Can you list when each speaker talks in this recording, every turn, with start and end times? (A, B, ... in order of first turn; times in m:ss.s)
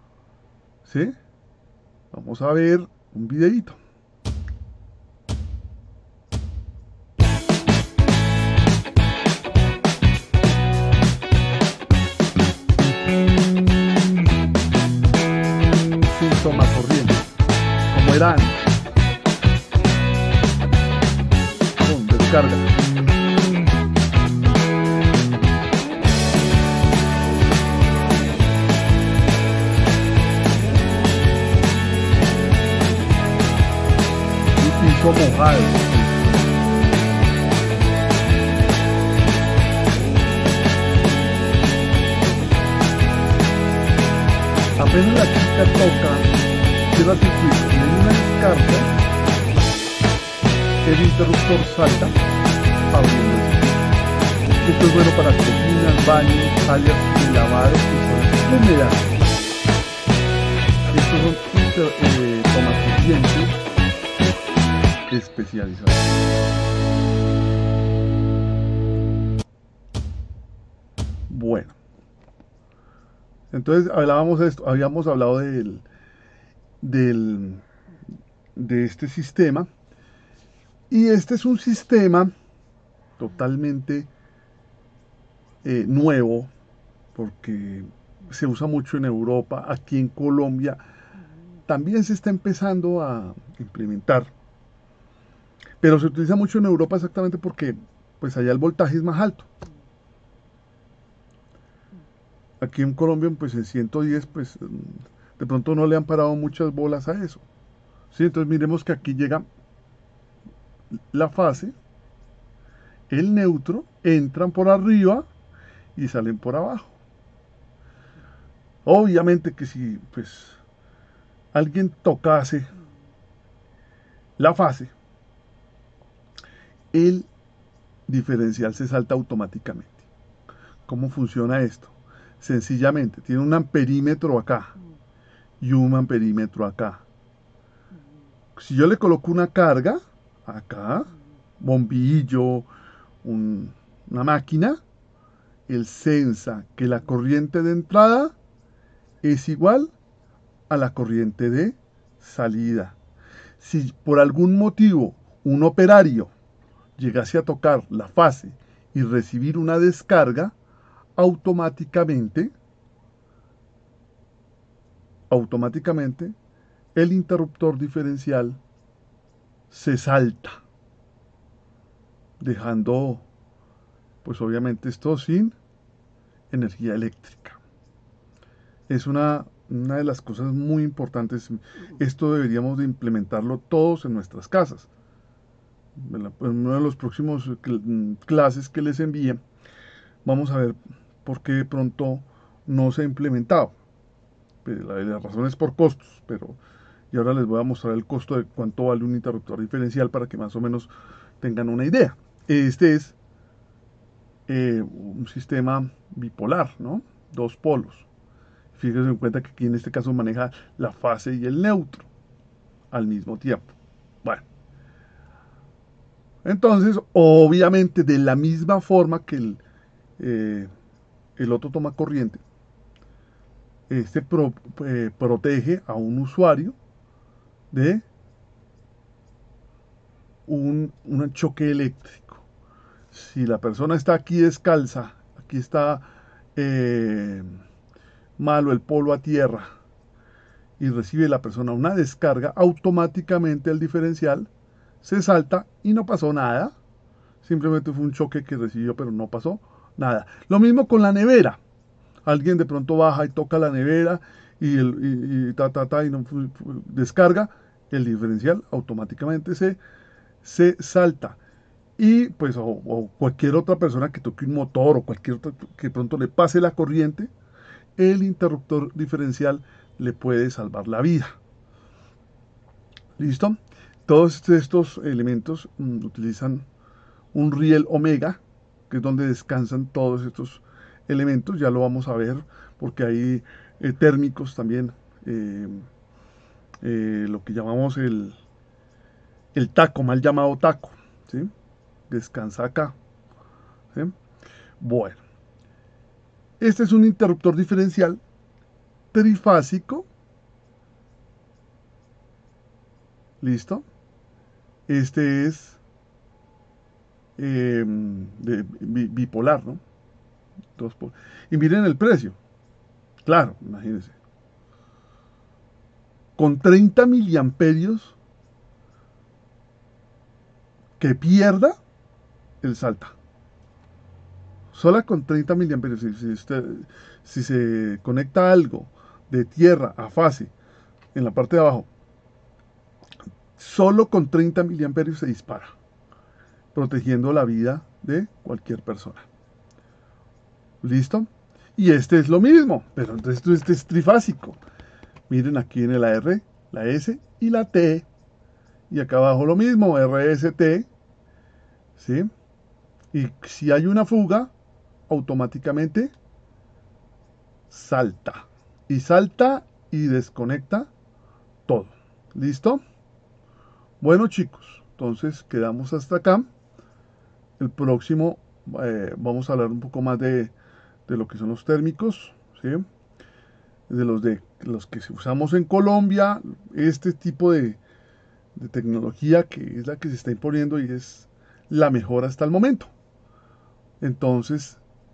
0:00.8-0:01.1 A
0:02.1-0:03.8 A
0:15.9-0:17.3 A
0:17.9-0:18.7 A
0:21.8-0:22.7 A
0:34.6-0:36.4 A
0:44.8-0:46.3 A
0:46.9-0:48.9 A
0:50.8-0:52.2 A
0:52.9-0:53.8 A
0:54.5-0:59.0 A
1:00.9-1:03.6 A
1:05.1-1:06.2 A
1:11.3-1:11.8 A
1:13.5-1:15.8 A
1:16.8-1:17.6 A
1:18.5-1:19.7 A
1:20.9-1:22.3 A
1:23.2-1:24.1 A
1:25.6-1:26.5 A
1:27.1-1:30.8 A
1:31.7-1:34.3 A
1:35.8-1:39.5 A
1:42.6-1:47.4 A
1:48.1-1:49.4 A
1:51.1-1:51.7 A
1:53.1-1:55.3 A
1:56.0-1:57.0 A
1:58.8-2:00.6 A
2:01.5-2:02.7 A
2:04.4-2:04.9 A
2:06.9-2:07.3 A
2:08.1-2:10.0 A
2:10.9-2:14.7 A
2:15.6-2:17.0 A
2:18.5-2:22.7 A
2:23.2-2:24.8 A
2:25.7-2:28.3 A
2:29.2-2:29.9 A
2:30.7-2:33.0 A
2:33.6-2:36.3 A
2:37.0-2:40.5 A
2:41.2-2:42.5 A
2:45.3-2:46.3 A
2:46.9-2:48.6 A
2:49.7-2:50.6 A
2:52.4-2:53.2 A
2:54.2-2:55.5 A
2:56.5-2:57.6 A
2:58.9-3:04.9 A
3:06.0-3:09.4 A
3:10.2-3:13.7 A
3:14.6-3:16.6 A
3:17.1-3:20.9 A
3:21.4-3:23.2 A
3:24.5-3:28.1 A
3:28.7-3:32.1 A
3:32.9-3:33.7 A
3:36.4-3:39.6 A
3:40.2-3:40.7 A
3:41.4-3:42.4 A
3:43.9-3:46.8 A
3:47.7-3:48.0 A
3:50.5-3:52.4 A
3:53.1-3:57.6 A
3:58.4-3:59.7 A
4:00.8-4:04.5 A
4:05.0-4:06.7 A
4:07.4-4:11.6 A
4:12.2-4:19.8 A
4:20.4-4:21.4 A
4:22.0-4:27.3 A
4:28.0-4:31.3 A
4:33.2-4:36.6 A
4:37.3-4:45.9 A
4:46.8-4:48.4 A
4:49.5-4:51.5 A
4:52.1-4:53.0 A
4:54.8-4:55.2 A
4:56.6-4:58.2 A
4:59.1-5:00.1 A
5:03.4-5:03.8 A
5:04.9-5:05.8 A
5:07.4-5:09.8 A
5:10.8-5:12.4 A
5:13.2-5:14.2 A
5:16.4-5:18.2 A
5:21.0-5:21.7 A
5:22.6-5:23.2 A
5:24.7-5:30.5 A
5:31.1-5:31.9 A
5:33.6-5:35.7 A
5:36.7-5:39.2 A
5:40.8-5:44.6 A
5:45.3-5:48.1 A
5:48.9-5:50.9 A
5:52.0-5:52.3 A
5:53.1-5:54.5 A
5:55.1-5:56.1 A
5:57.7-6:00.9 A
6:01.7-6:02.8 A
6:04.0-6:06.5 A
6:07.6-6:10.5 A
6:11.1-6:12.8 A
6:13.9-6:17.8 A
6:18.6-6:22.9 A
6:24.0-6:24.8 A